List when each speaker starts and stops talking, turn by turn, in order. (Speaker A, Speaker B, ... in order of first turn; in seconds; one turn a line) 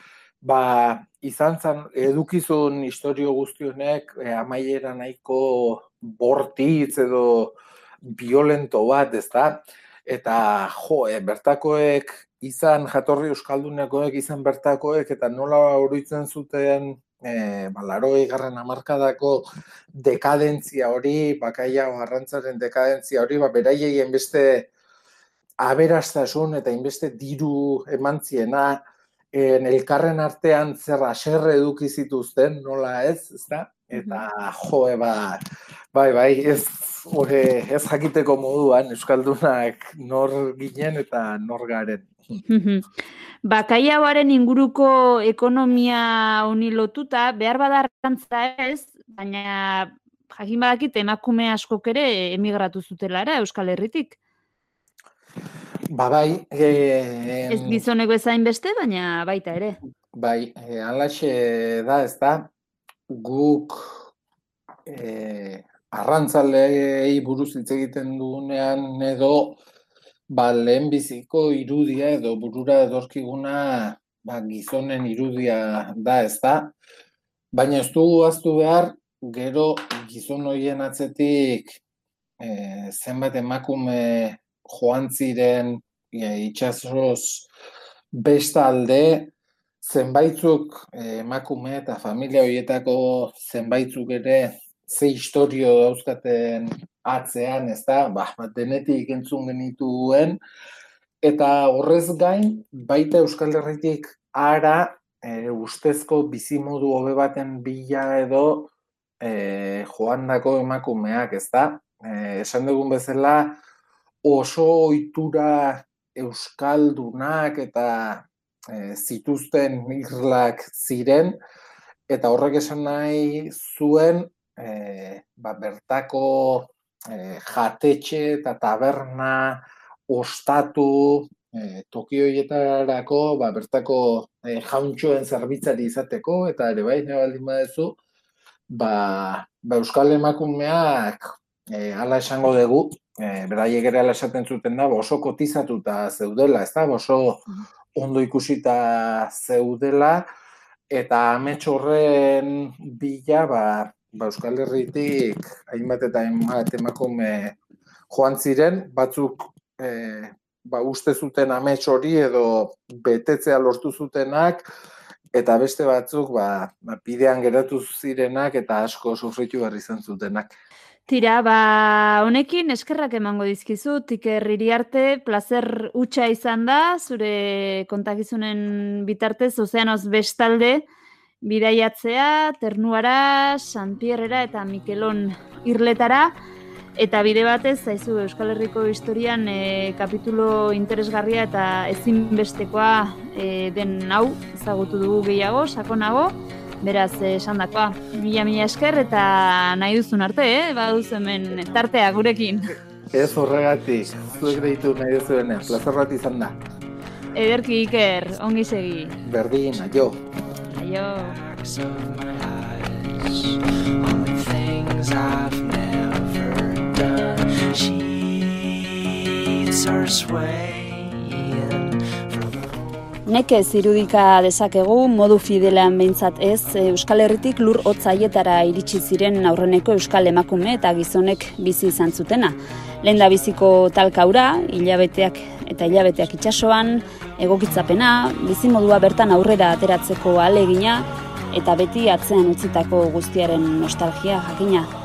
Speaker A: 0.4-24.7
Speaker A: 25.6-28.8
Speaker A: 29.3-35.4
Speaker B: 34.0-34.3
Speaker A: 35.9-42.4
Speaker B: 42.5-42.9
Speaker B: 43.5-54.2
Speaker A: 55.9-57.9
Speaker B: 57.5-59.8
Speaker A: 60.1-62.5
Speaker A: 63.1-64.1
Speaker A: 64.9-69.6
Speaker A: 70.3-76.8
Speaker A: 77.5-81.8
Speaker A: 82.4-87.5
Speaker A: 88.1-100.4
Speaker A: 101.2-113.6
Speaker A: 114.2-121.4
Speaker A: 122.1-138.0
Speaker A: 138.7-150.3
Speaker A: 150.9-157.6
Speaker A: 158.1-164.7
Speaker A: 165.3-170.5
Speaker B: 171.1-180.8
Speaker B: 181.4-186.3
Speaker B: 187.0-202.7
Speaker A: 203.1-206.6
Speaker C: 203.2-205.8
Speaker B: 207.3-209.2
Speaker A: 209.2-210.2
Speaker C: 209.7-210.1
Speaker C: 210.7-222.8
Speaker B: 210.7-211.4
Speaker B: 223.3-244.9